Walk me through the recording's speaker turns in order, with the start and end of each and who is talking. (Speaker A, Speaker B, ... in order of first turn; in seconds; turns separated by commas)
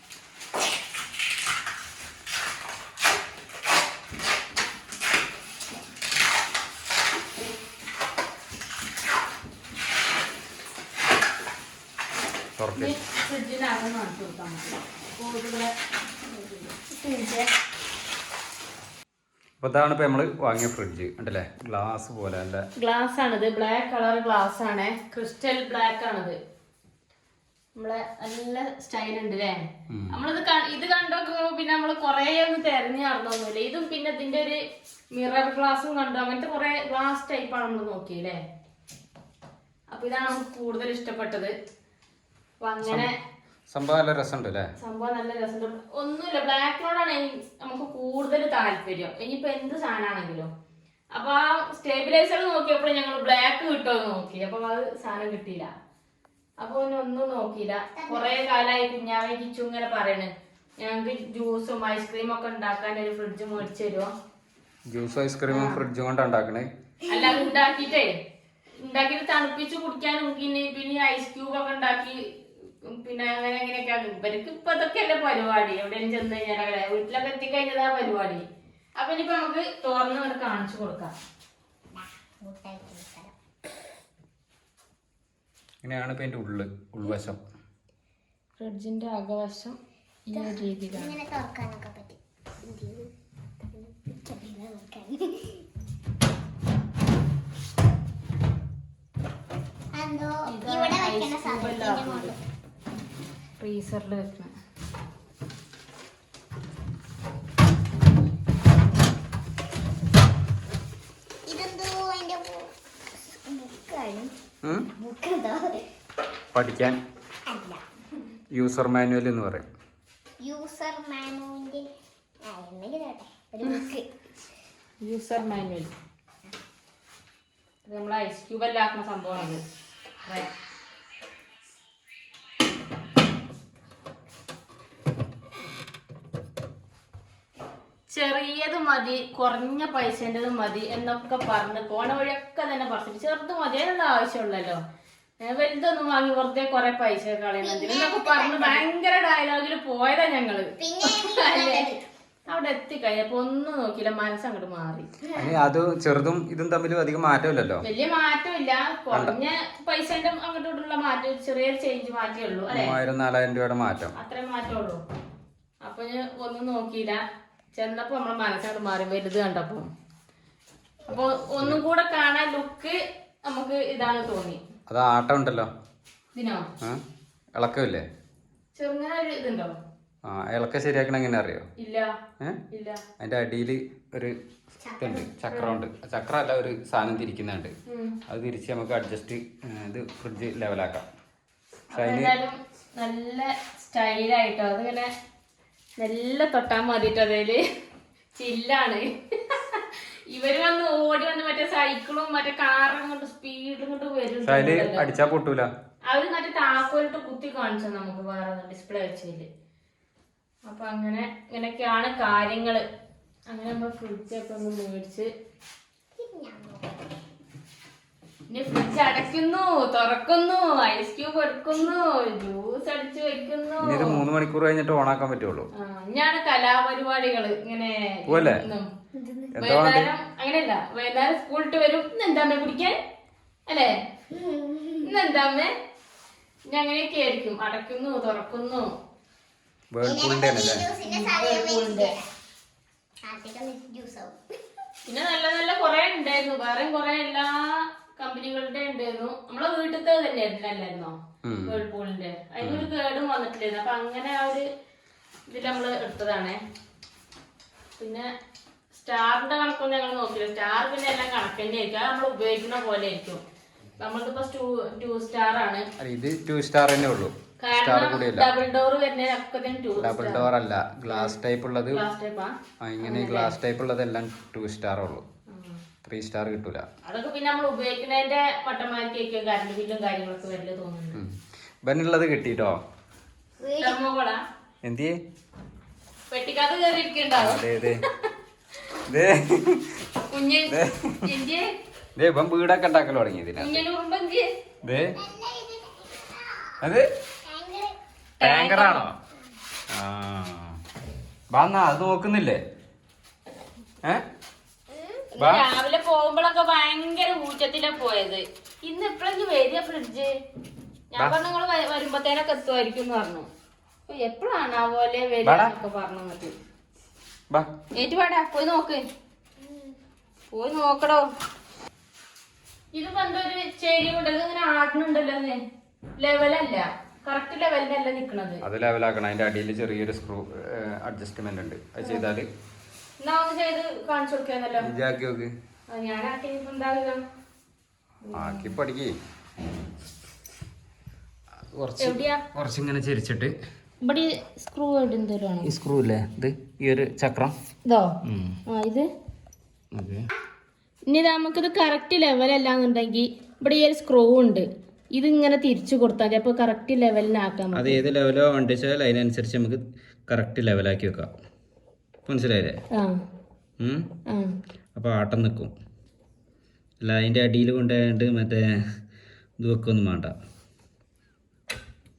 Speaker A: 12.6-12.9, Speaker B: 12.8-15.7, Speaker B: 16.3-17.5, Speaker A: 19.6-22.6, Speaker B: 22.8-26.4, Speaker B: 27.8-34.6, Speaker A: 29.9-30.2, Speaker B: 35.1-38.4, Speaker B: 39.9-41.5, Speaker B: 42.6-43.1, Speaker A: 42.8-43.1, Speaker A: 43.7-44.7, Speaker B: 44.8-50.5, Speaker B: 51.1-55.7, Speaker B: 56.6-64.1, Speaker C: 58.0-58.3, Speaker A: 64.9-66.7, Speaker B: 65.5-65.8, Speaker B: 67.1-68.1, Speaker B: 68.8-72.2, Speaker B: 72.9-78.4, Speaker B: 79.0-81.1, Speaker C: 82.4-83.3, Speaker A: 85.8-87.4, Speaker B: 88.6-91.2, Speaker C: 90.3-93.1, Speaker C: 93.7-95.6, Speaker C: 99.9-102.4, Speaker B: 100.5-102.3, Speaker B: 103.6-104.5, Speaker C: 111.5-112.7, Speaker C: 113.3-114.3, Speaker A: 114.6-114.9, Speaker C: 115.0-115.8, Speaker A: 116.5-117.0, Speaker C: 117.5-117.8, Speaker A: 118.5-119.7, Speaker C: 120.4-121.9, Speaker C: 122.4-124.1, Speaker B: 125.0-125.9, Speaker B: 127.9-129.6, Speaker B: 138.1-144.8, Speaker B: 145.4-151.9, Speaker C: 147.6-148.8, Speaker C: 150.8-152.0, Speaker B: 152.5-155.1, Speaker C: 155.2-155.6, Speaker A: 155.4-157.8, Speaker B: 157.8-163.0, Speaker A: 159.1-159.4, Speaker A: 162.7-164.1, Speaker B: 164.2-165.0, Speaker B: 165.8-167.2, Speaker B: 167.7-169.9, Speaker B: 171.1-174.6, Speaker A: 174.9-175.7, Speaker B: 176.3-176.7, Speaker A: 177.6-178.0, Speaker B: 178.8-179.8, Speaker A: 180.3-181.7, Speaker B: 181.8-182.1, Speaker B: 182.7-183.0, Speaker A: 183.2-184.4, Speaker C: 184.8-185.3, Speaker A: 185.0-187.7, Speaker B: 185.5-185.8, Speaker B: 187.9-188.2, Speaker A: 188.3-191.1, Speaker B: 191.9-195.1, Speaker A: 191.9-192.3, Speaker B: 196.0-197.6, Speaker B: 198.3-205.2, Speaker A: 204.4-205.7, Speaker B: 206.1-209.5, Speaker B: 210.7-212.8, Speaker B: 213.5-215.3, Speaker C: 216.2-217.1, Speaker B: 218.5-224.2, Speaker A: 223.8-225.7, Speaker B: 225.8-228.9, Speaker A: 228.3-228.6, Speaker C: 229.2-229.5, Speaker A: 229.5-230.1, Speaker B: 229.6-233.0, Speaker B: 233.7-233.9, Speaker C: 234.3-235.1, Speaker B: 235.0-235.7, Speaker B: 236.7-238.9, Speaker A: 239.9-240.8, Speaker C: 240.0-242.2, Speaker B: 241.1-242.1, Speaker C: 243.2-244.4, Speaker B: 245.1-251.1, Speaker A: 251.4-251.8, Speaker B: 251.7-254.7, Speaker A: 252.6-252.9, Speaker B: 255.5-256.6, Speaker B: 258.0-258.3, Speaker B: 258.9-263.4, Speaker B: 264.0-265.9, Speaker A: 266.0-268.5, Speaker B: 267.6-270.5, Speaker A: 270.0-272.0, Speaker B: 271.1-271.4, Speaker B: 271.9-272.5, Speaker A: 272.8-275.2, Speaker B: 273.0-273.6, Speaker B: 275.5-275.8, Speaker A: 276.1-276.9, Speaker B: 277.0-281.2, Speaker A: 281.1-282.8, Speaker C: 283.6-284.0, Speaker B: 283.8-284.4, Speaker A: 284.8-285.2, Speaker B: 286.3-287.6, Speaker A: 287.4-288.0, Speaker A: 289.1-290.0, Speaker B: 290.3-291.7, Speaker A: 290.7-291.3, Speaker A: 292.2-293.8, Speaker B: 293.6-294.5, Speaker A: 294.8-295.1, Speaker C: 295.2-296.8, Speaker C: 297.4-298.0, Speaker B: 298.4-299.1, Speaker A: 298.4-299.2, Speaker A: 299.9-300.8, Speaker A: 301.5-302.6, Speaker C: 304.9-305.2, Speaker B: 305.4-310.3, Speaker A: 305.4-305.6, Speaker B: 311.1-313.5, Speaker B: 314.1-316.5, Speaker A: 315.4-315.8, Speaker B: 318.0-319.0, Speaker C: 319.6-319.9, Speaker B: 320.5-321.3, Speaker B: 322.9-325.6, Speaker B: 326.2-328.6, Speaker A: 328.6-332.5, Speaker B: 332.0-332.3, Speaker B: 333.2-334.9, Speaker A: 334.8-335.5, Speaker B: 335.9-337.2, Speaker B: 338.2-338.8, Speaker A: 338.3-339.2, Speaker A: 341.7-343.5, Speaker B: 342.0-342.4, Speaker B: 344.0-345.7, Speaker A: 345.6-347.6, Speaker B: 347.9-348.1, Speaker A: 348.2-348.6, Speaker B: 348.7-349.1, Speaker A: 349.9-350.3, Speaker B: 351.1-358.0, Speaker A: 357.7-361.3, Speaker A: 362.3-362.8, Speaker A: 363.8-364.1, Speaker B: 364.3-364.6, Speaker A: 364.9-365.7, Speaker A: 367.0-368.6, Speaker A: 369.6-370.3